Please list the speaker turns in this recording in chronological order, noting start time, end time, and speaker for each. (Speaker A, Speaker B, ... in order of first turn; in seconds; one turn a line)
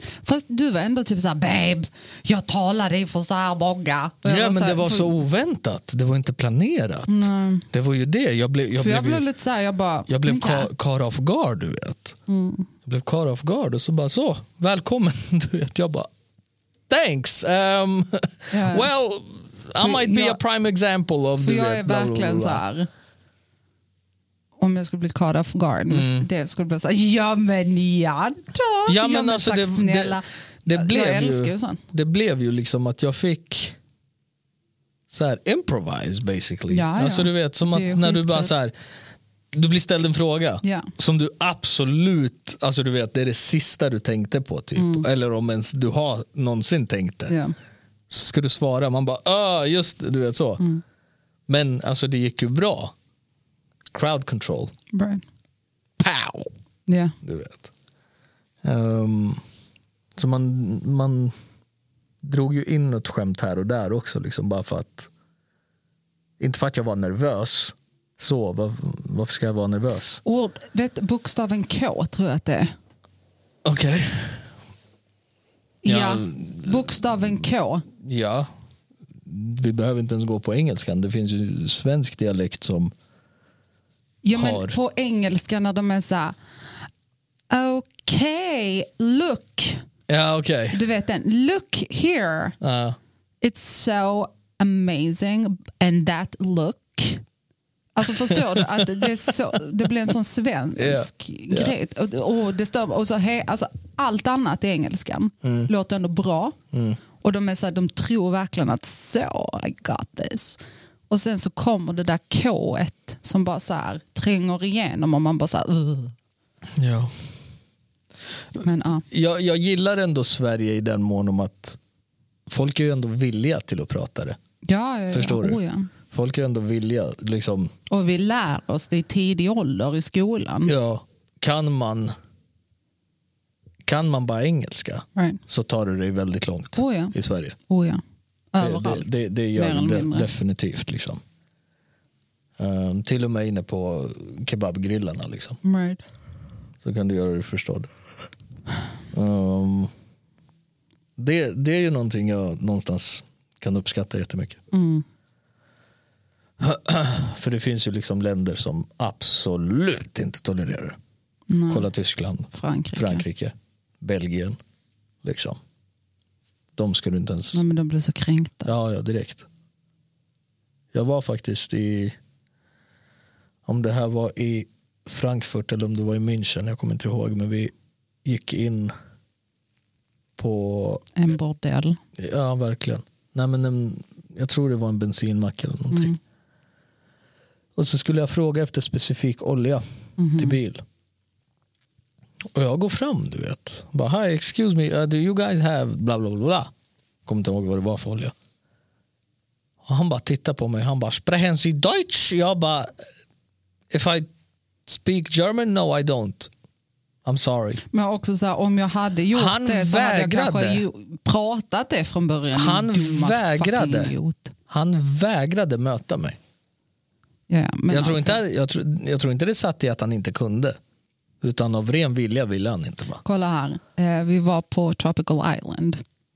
Speaker A: 0.2-5.1
Speaker B: 4.2-9.2
Speaker A: 7.1-7.7
Speaker A: 8.8-10.7
Speaker B: 10.1-12.2
Speaker A: 12.3-12.7
Speaker B: 12.8-16.1
Speaker B: 16.9-22.6
Speaker A: 18.5-18.9
Speaker A: 19.8-20.4
Speaker A: 21.4-22.9
Speaker A: 24.6-31.8
Speaker B: 25.9-26.3
Speaker B: 28.9-33.8
Speaker B: 35.1-38.7
Speaker A: 36.7-38.5
Speaker B: 39.5-47.4
Speaker A: 40.6-40.9
Speaker A: 44.8-45.1
Speaker A: 47.3-47.5
Speaker B: 48.1-50.6
Speaker B: 51.5-52.9
Speaker B: 53.9-54.7
Speaker A: 54.9-55.2
Speaker B: 56.0-56.5
Speaker A: 56.9-57.2
Speaker B: 57.2-57.7
Speaker B: 58.6-59.4
Speaker B: 60.1-61.4
Speaker B: 62.2-65.1
Speaker B: 66.4-70.2
Speaker A: 70.2-72.7
Speaker B: 73.6-74.5
Speaker A: 75.8-77.8
Speaker B: 75.8-76.9
Speaker B: 78.0-78.5
Speaker B: 79.2-82.9
Speaker A: 84.2-86.4
Speaker B: 84.3-84.8
Speaker A: 87.5-89.8
Speaker B: 90.1-90.8
Speaker A: 90.7-92.6
Speaker B: 92.6-93.0
Speaker A: 93.4-97.2
Speaker A: 98.0-106.6
Speaker B: 98.3-99.1
Speaker B: 100.8-101.8
Speaker B: 105.4-105.7
Speaker B: 106.7-107.0
Speaker A: 107.2-110.6
Speaker A: 111.1-116.1
Speaker B: 116.8-117.1
Speaker A: 118.6-119.0
Speaker B: 119.1-121.8
Speaker B: 122.5-124.4
Speaker A: 124.7-125.9
Speaker B: 125.1-127.7
Speaker A: 127.9-130.7
Speaker B: 130.7-132.1
Speaker B: 133.8-137.6
Speaker A: 135.2-135.4
Speaker A: 136.8-137.1
Speaker A: 137.7-138.0
Speaker A: 138.5-140.3
Speaker B: 138.6-141.2
Speaker B: 142.6-145.6
Speaker A: 145.6-146.0
Speaker B: 146.8-147.9
Speaker B: 149.1-149.9
Speaker B: 151.2-154.6
Speaker A: 154.7-155.1
Speaker B: 156.6-161.0
Speaker A: 161.5-161.9
Speaker B: 161.7-164.6
Speaker A: 162.5-163.2
Speaker B: 165.2-165.6
Speaker B: 166.8-167.6
Speaker A: 167.5-168.7
Speaker B: 168.7-169.5
Speaker B: 170.9-172.2
Speaker B: 173.7-177.7
Speaker B: 178.2-178.9
Speaker B: 180.4-181.1
Speaker A: 181.2-182.0
Speaker B: 182.2-186.1
Speaker A: 185.9-186.2
Speaker B: 187.8-189.8
Speaker A: 190.2-190.6
Speaker B: 190.3-190.8
Speaker B: 192.5-196.7
Speaker B: 197.3-198.3
Speaker B: 199.8-203.0
Speaker B: 203.9-204.3
Speaker B: 204.9-206.5
Speaker B: 207.2-207.8
Speaker A: 207.9-214.6
Speaker B: 209.3-210.8
Speaker B: 212.5-214.1
Speaker B: 214.7-216.4
Speaker A: 217.5-218.4
Speaker B: 217.9-220.8
Speaker B: 221.4-223.2
Speaker A: 223.2-226.0